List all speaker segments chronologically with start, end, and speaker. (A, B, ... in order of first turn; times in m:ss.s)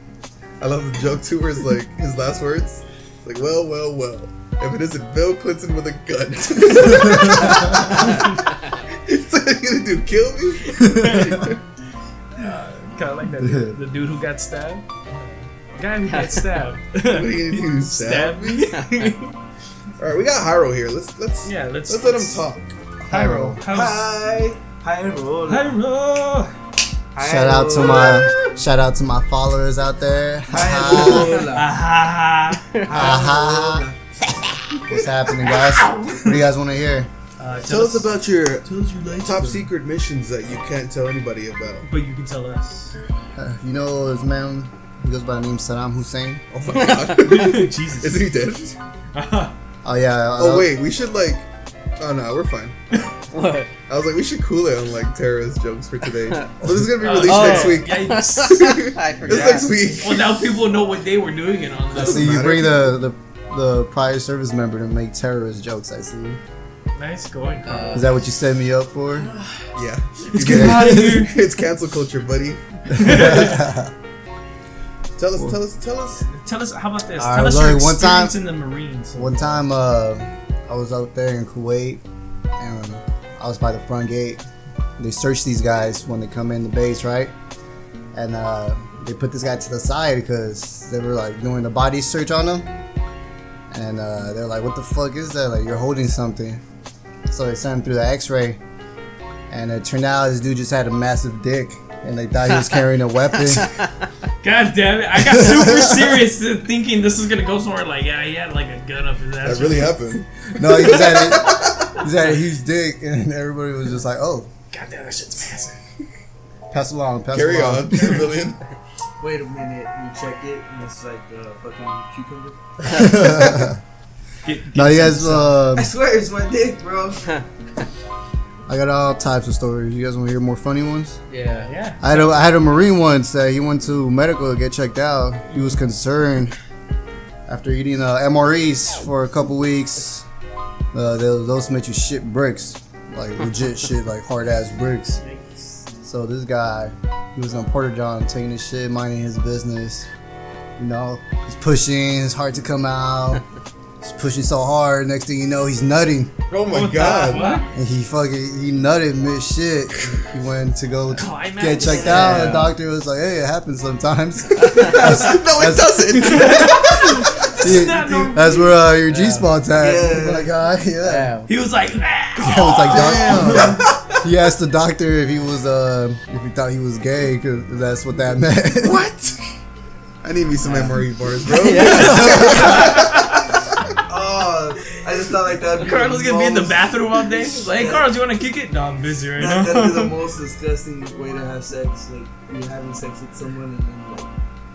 0:00.6-0:11.6 A
0:10.8-0:11.2 B
0:10.8-0:11.5 C
0:12.4-0:19.3 C
0:13.4-0:13.8 B
0:16.1-0:16.5 D
0:17.1-0:18.6 A
0:18.7-0:19.1 D
0:20.0-0:22.7 A
0:21.4-0:22.5 C
0:23.0-0:23.6 B
0:23.1-0:24.1 C
0:23.7-0:25.8 E
0:25.5-0:26.5 C
0:27.1-0:28.3 E
0:27.2-0:31.4 B
0:30.5-0:31.7 E
0:30.9-0:32.7 C
0:32.8-0:34.0 E
0:32.9-0:33.9 B
0:34.9-0:37.1 B
0:35.4-0:36.4 C
0:37.4-0:38.1 C
0:37.6-0:38.6 A
0:38.6-0:39.7 E
0:39.2-0:41.8 A
0:41.8-0:42.9 C
0:43.4-0:46.4 B
0:46.5-0:48.8 A
0:46.8-0:48.2 C
0:49.1-0:49.5 C
0:49.8-0:50.7 B
0:50.4-0:51.4 A
0:52.0-0:52.8 A
0:53.3-0:53.7 D
0:53.9-1:00.4 A
0:57.0-0:58.6 C
0:57.1-0:59.7 D
1:00.0-1:02.4 C
1:01.9-1:03.0 A
1:01.9-1:06.4 B
1:07.0-1:08.1 C
1:07.6-1:08.2 D
1:07.9-1:09.3 B
1:09.7-1:13.3 A
1:10.3-1:11.4 C
1:10.4-1:11.3 B
1:12.9-1:13.9 B
1:13.0-1:13.7 C
1:15.2-1:16.3 A
1:16.3-1:19.6 C
1:17.1-1:18.4 B
1:19.1-1:22.0 B
1:22.6-1:24.4 B
1:25.0-1:27.3 B
1:28.1-1:32.7 B
1:33.7-1:36.6 B
1:37.3-1:38.6 B
1:39.5-1:43.7 B
1:43.5-1:43.9 D
1:44.4-1:50.0 C
1:45.2-1:46.1 B
1:49.4-1:51.9 A
1:50.6-1:54.5 B
1:54.7-1:55.8 C
1:56.7-1:58.2 B
1:57.3-1:58.6 A
1:59.2-2:02.6 E
2:02.8-2:03.8 B
2:04.4-2:05.6 C
2:04.7-2:05.9 B
2:05.7-2:07.2 E
2:07.2-2:07.8 D
2:08.7-2:11.2 B
2:11.3-2:11.7 D
2:11.7-2:12.6 C
2:12.0-2:16.6 B
2:17.5-2:20.2 B
2:20.9-2:25.2 B
2:26.0-2:30.1 B
2:30.8-2:33.4 B
2:34.0-2:36.3 B
2:36.5-2:37.6 A
2:36.7-2:37.7 C
2:37.7-2:51.3 B
2:41.1-2:42.7 C
2:41.9-2:42.7 D
2:44.8-2:47.2 A
2:46.2-2:48.8 C
2:49.1-2:49.5 D
2:49.7-2:50.5 E
2:51.0-2:51.5 D
2:51.5-2:53.7 C
2:52.4-2:59.0 B
2:52.9-2:54.0 A
2:58.8-2:59.4 A
3:00.2-3:03.4 A
3:00.6-3:02.9 D
3:02.0-3:03.5 C
3:02.1-3:02.5 B
3:04.1-3:07.0 E
3:05.8-3:10.1 C
3:07.6-3:08.1 E
3:09.4-3:14.3 E